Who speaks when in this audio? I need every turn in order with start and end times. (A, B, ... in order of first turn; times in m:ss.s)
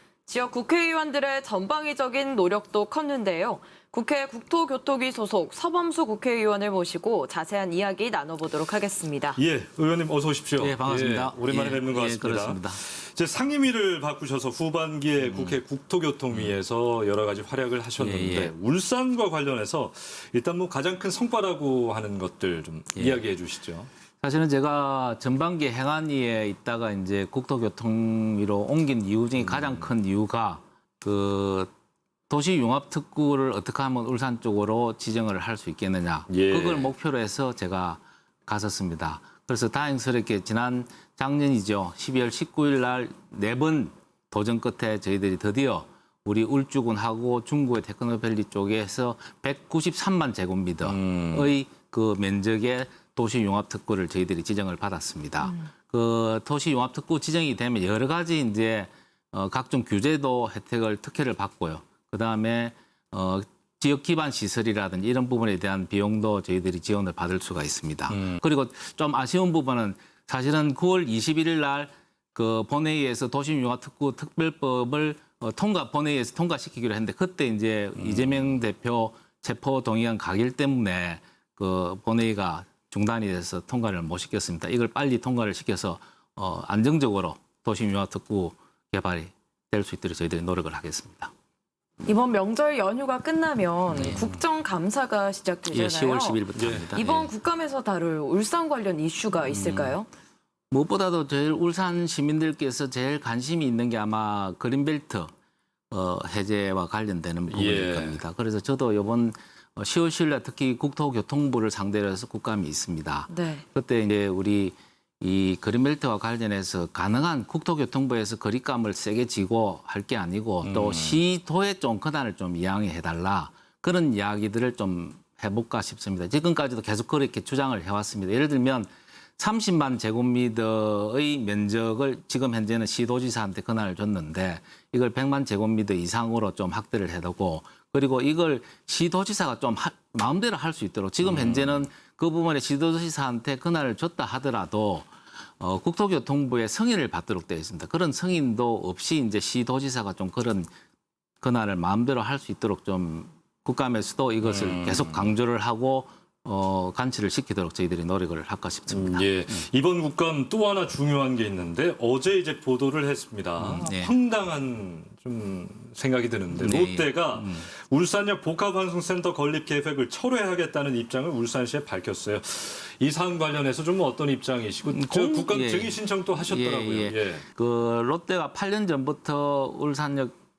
0:00.2-0:09.4 A
0:09.4-0:23.9 B
0:10.6-0:12.8 C
0:15.2-0:15.6 C
0:18.0-0:18.5 C
0:22.9-0:23.2 C
0:24.2-0:31.7 C
0:32.3-1:31.3 C
0:36.3-0:36.9 B
0:50.8-0:51.5 B
1:18.0-1:18.3 B
1:32.0-1:40.1 A
1:33.9-1:34.2 C
1:35.7-1:37.3 C
1:36.5-1:36.9 B
1:39.4-1:40.0 C
1:40.7-1:45.3 C
1:45.9-2:25.1 C
1:47.5-1:48.2 B
1:53.3-1:53.6 A
2:00.6-2:01.2 B
2:21.2-2:21.8 B
2:25.6-2:30.7 C
2:31.4-2:39.6 C
2:34.4-2:35.3 B
2:38.9-2:57.4 B
2:43.6-2:44.1 C
2:46.5-2:47.6 C
2:54.9-3:00.3 C